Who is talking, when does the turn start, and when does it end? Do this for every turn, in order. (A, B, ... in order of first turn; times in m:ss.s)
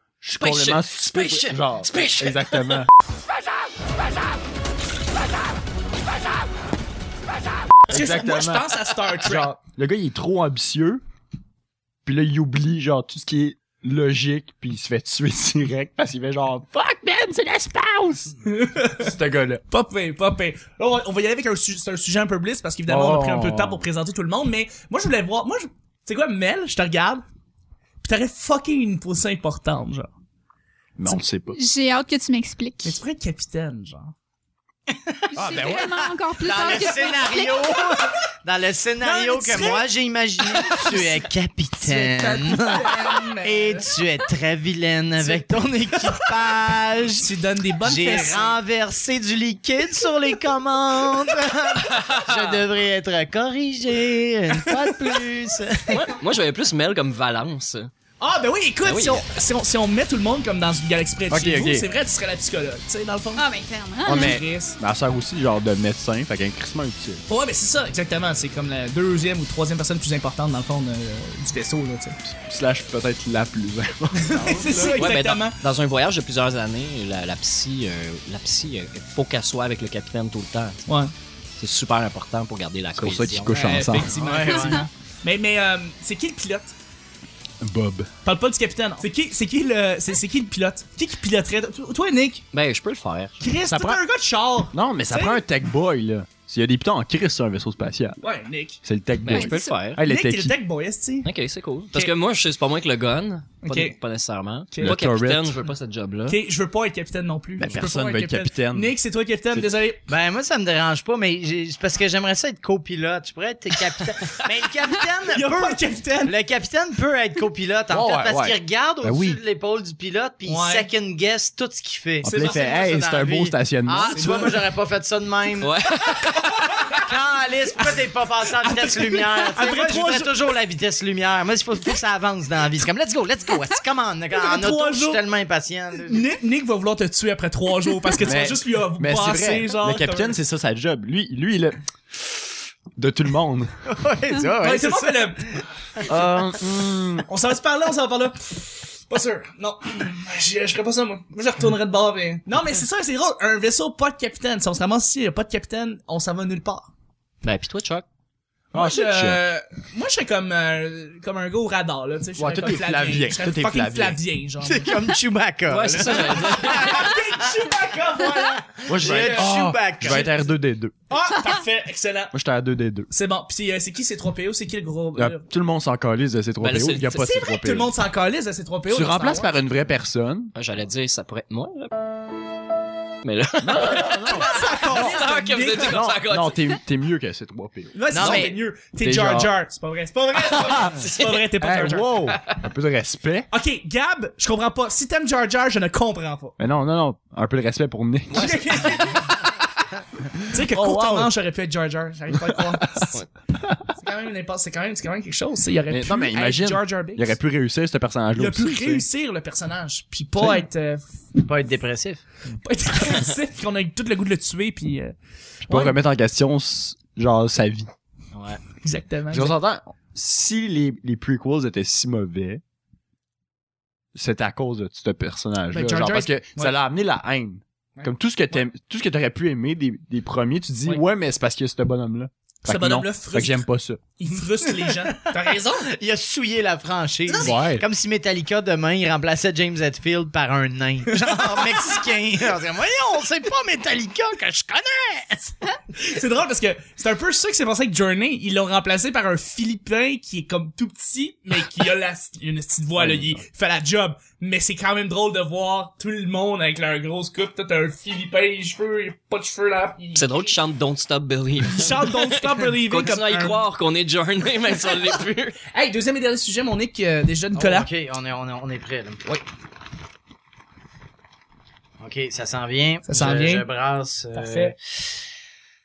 0:00.2-0:02.9 A
0:00.3-0:02.8 B
0:07.9-0:09.6 C
0:07.9-0:11.0 A
0:12.0-0:18.4 A
0:18.4-0:19.1 C
0:19.0-0:19.6 A
0:19.7-0:27.2 C
0:22.9-0:23.8 A
0:28.0-0:30.1 C
0:31.0-0:31.6 A
0:31.5-0:33.0 D
0:32.8-0:34.1 C
0:34.9-0:47.3 E
0:35.3-0:37.7 D
0:35.4-0:36.0 A
0:39.0-0:39.9 C
0:40.4-0:41.2 C
0:41.8-0:43.9 C
0:45.2-0:46.2 C
0:47.1-0:48.6 C
0:47.8-0:56.0 E
0:52.0-0:52.6 B
0:54.5-0:55.2 C
0:55.9-0:57.9 B
0:58.2-1:03.4 C
0:58.8-0:59.2 B
1:01.3-1:01.8 A
1:03.4-1:04.4 D
1:04.0-1:07.2 A
1:04.0-1:04.8 C
1:07.3-1:12.2 C
1:12.2-1:15.1 A
1:14.2-1:15.6 C
1:14.9-1:20.8 B
1:20.9-1:21.1 C
1:21.6-1:23.8 B
1:23.0-1:24.1 A
1:23.6-1:26.7 C
1:23.8-1:24.9 E
1:24.5-1:24.8 D
1:27.6-1:28.1 A
1:28.2-1:32.4 C
1:32.5-1:33.4 B
1:33.4-1:35.4 C
1:33.7-1:34.0 A
1:34.7-1:38.2 A
1:38.2-1:38.8 C
1:38.8-1:40.5 A
1:39.2-1:40.0 B
1:39.3-1:39.7 D
1:39.9-1:41.3 C
1:41.2-1:46.4 B
1:43.6-1:44.0 C
1:44.7-1:45.0 C
1:44.8-1:45.6 A
1:46.3-1:50.0 C
1:47.6-1:48.9 A
1:50.1-2:05.8 E
1:55.3-1:56.3 C
1:57.9-1:59.4 A
2:00.4-2:00.9 C
2:02.2-2:04.4 A
2:02.2-2:02.8 C
2:04.1-2:04.7 C
2:05.6-2:06.6 B
2:06.9-2:16.2 E
2:08.6-2:10.3 C
2:14.3-2:15.2 C
2:16.0-2:20.4 C
2:18.2-2:23.7 A
2:23.9-2:26.2 E
2:24.6-2:25.6 C
2:26.1-2:27.3 A
2:27.3-2:36.9 C
2:37.4-2:38.0 B
2:38.7-2:45.0 C
2:38.7-2:39.4 A
2:42.4-2:44.2 A
2:44.6-2:47.4 E
2:45.7-2:47.1 B
2:46.0-2:50.3 C
2:48.7-2:50.4 E
2:48.9-2:50.9 A
2:51.1-2:52.3 C
2:52.3-2:53.1 A
2:53.1-2:55.5 C
2:55.2-2:57.9 A
2:56.6-2:57.2 B
2:57.2-2:59.5 C
2:58.9-3:00.5 A
3:00.5-3:01.9 B
3:03.2-3:06.6 B
3:03.6-3:09.5 A
3:04.3-3:06.0 C
3:07.9-3:12.2 C
3:08.1-3:08.6 E
3:10.5-3:13.5 A
3:13.5-3:16.6 C
3:16.6-3:19.1 A
3:18.3-3:19.5 C
3:20.4-3:23.2 C
3:20.6-3:21.3 A
3:22.4-3:23.8 A
3:24.0-3:27.3 C
3:25.9-3:29.0 A
3:28.4-3:31.1 C
3:31.4-3:32.2 E
3:32.6-3:35.1 C
3:35.6-3:37.9 A
3:35.6-3:36.0 C
3:38.3-3:38.6 E
3:38.8-3:39.5 C
3:39.3-3:42.6 A
3:44.1-3:54.0 A
3:45.7-3:46.7 C
3:48.0-3:48.6 C
3:52.6-3:53.6 C
3:54.2-3:55.9 C
3:55.3-4:05.6 E
3:57.3-3:57.6 C
3:57.4-3:57.8 A
4:01.1-4:02.0 C
4:05.9-4:20.5 C
4:13.0-4:13.4 A
4:20.1-4:25.6 B
4:21.6-4:23.6 C
4:25.6-4:27.9 C
4:27.5-4:29.2 E
4:32.0-4:35.1 E
4:33.0-4:33.6 C
4:34.3-4:34.7 C